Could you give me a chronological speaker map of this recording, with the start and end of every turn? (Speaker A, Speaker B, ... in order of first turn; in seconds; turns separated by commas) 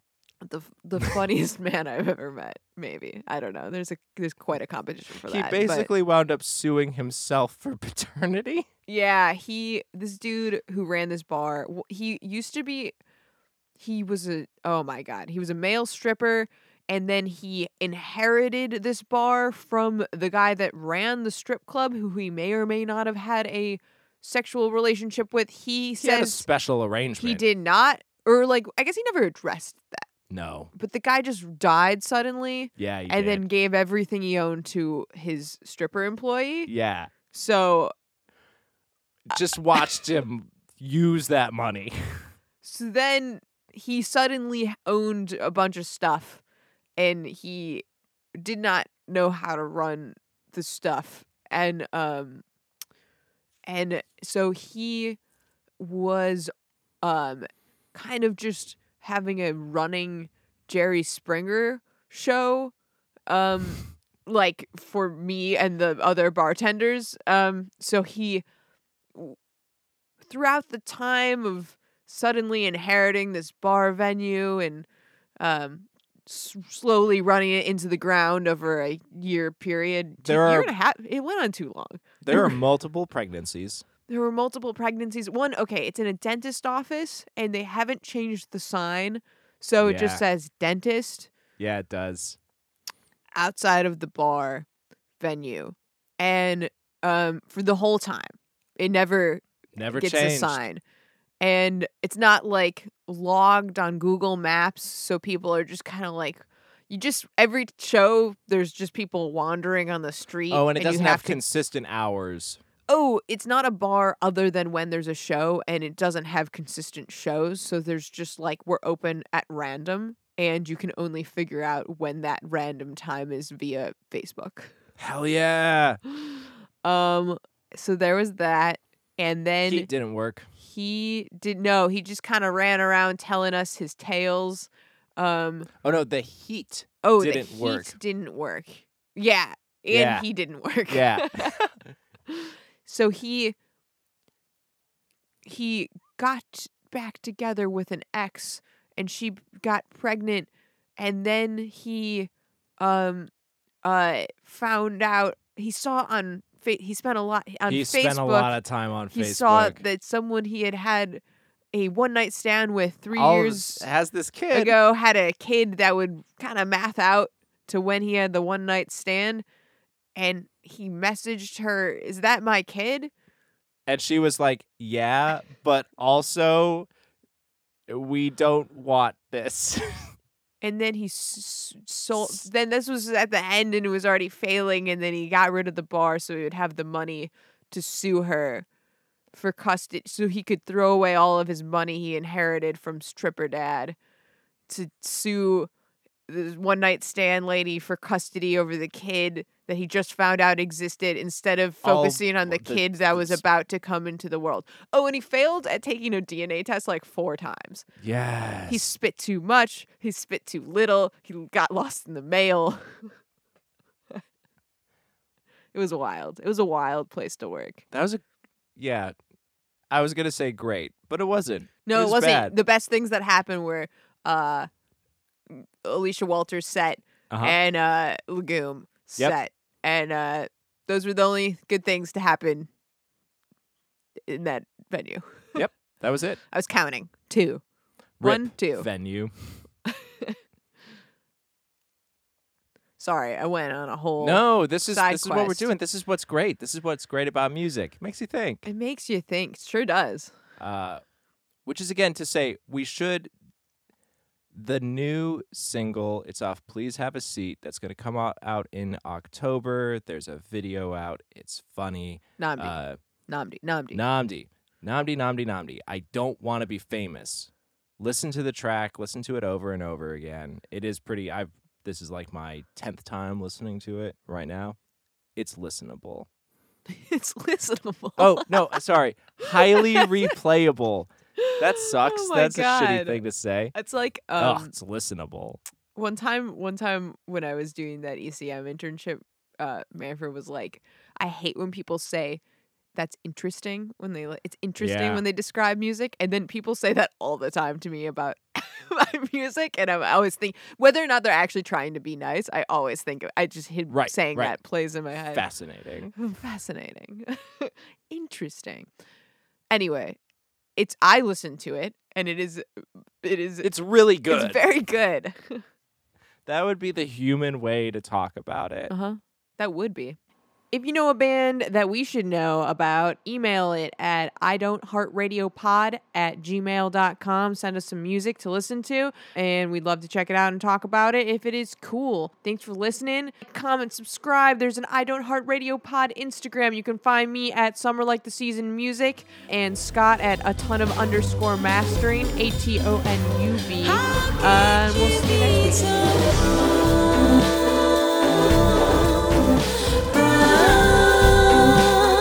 Speaker A: 0.4-5.9, Speaker B: 5.2-8.7, Speaker A: 8.9-12.9, Speaker A: 13.8-26.5, Speaker B: 26.0-27.4, Speaker A: 27.2-30.1, Speaker B: 30.3-30.7, Speaker A: 30.7-36.7, Speaker B: 32.8-33.4, Speaker B: 36.7-37.1, Speaker A: 37.3-37.9, Speaker B: 39.3-42.3, Speaker A: 42.6-46.4, Speaker A: 47.0-47.9, Speaker A: 48.4-52.4, Speaker A: 53.7-55.2, Speaker A: 55.8-56.5, Speaker A: 57.0-62.7, Speaker A: 63.3-68.4, Speaker A: 70.2-74.9, Speaker A: 75.4-82.6, Speaker B: 80.2-80.7, Speaker B: 82.2-83.8, Speaker A: 84.1-91.3, Speaker B: 89.8-90.2, Speaker B: 91.6-92.4, Speaker A: 93.4-94.7, Speaker A: 95.2-100.8, Speaker B: 99.8-100.6, Speaker A: 101.4-111.4, Speaker B: 110.5-112.6, Speaker A: 112.9-124.7, Speaker B: 125.0-126.0, Speaker A: 126.2-129.9, Speaker B: 129.7-130.5, Speaker A: 130.6-135.7, Speaker B: 135.8-137.9, Speaker A: 137.0-141.6, Speaker B: 139.9-140.3, Speaker B: 140.9-141.7, Speaker A: 142.3-143.6, Speaker A: 145.4-153.3, Speaker A: 153.8-158.6, Speaker B: 157.7-159.8, Speaker A: 159.1-161.2, Speaker A: 161.7-163.8, Speaker B: 163.1-164.8, Speaker A: 164.5-169.4, Speaker A: 170.2-173.1, Speaker B: 173.9-176.9, Speaker B: 177.9-179.8, Speaker A: 180.6-188.7, Speaker B: 182.2-182.4, Speaker A: 189.3-194.0, Speaker A: 194.7-195.7, Speaker A: 196.3-207.9, Speaker B: 201.8-203.4, Speaker B: 208.0-208.9, Speaker A: 208.7-213.1, Speaker A: 215.7-217.8, Speaker B: 217.9-218.2, Speaker B: 218.8-219.1, Speaker B: 219.9-222.5, Speaker A: 221.8-224.7, Speaker A: 225.5-232.7, Speaker B: 227.3-227.6, Speaker A: 234.3-235.7, Speaker B: 235.6-236.4, Speaker A: 236.5-237.6, Speaker B: 238.2-239.3, Speaker A: 238.2-238.9, Speaker A: 239.9-240.4, Speaker A: 243.0-245.7, Speaker B: 244.2-248.7, Speaker A: 248.7-250.3, Speaker B: 250.6-251.0, Speaker B: 251.7-253.3, Speaker B: 254.5-263.0, Speaker A: 262.4-262.8, Speaker A: 263.3-264.0, Speaker B: 263.9-274.8, Speaker B: 275.4-276.3, Speaker A: 276.9-278.8, Speaker B: 278.2-283.8, Speaker A: 279.5-280.3, Speaker A: 281.4-283.2, Speaker A: 283.8-284.7, Speaker B: 284.4-285.6, Speaker A: 285.9-292.4, Speaker A: 292.9-305.5, Speaker B: 294.8-295.2, Speaker B: 303.9-304.6, Speaker B: 305.3-306.1, Speaker A: 306.2-308.9, Speaker A: 309.7-310.2, Speaker A: 310.8-312.6, Speaker A: 313.2-313.7, Speaker B: 313.6-314.6, Speaker A: 314.3-315.6, Speaker B: 316.5-318.9, Speaker A: 318.9-320.2, Speaker A: 320.7-346.5, Speaker A: 350.3-350.8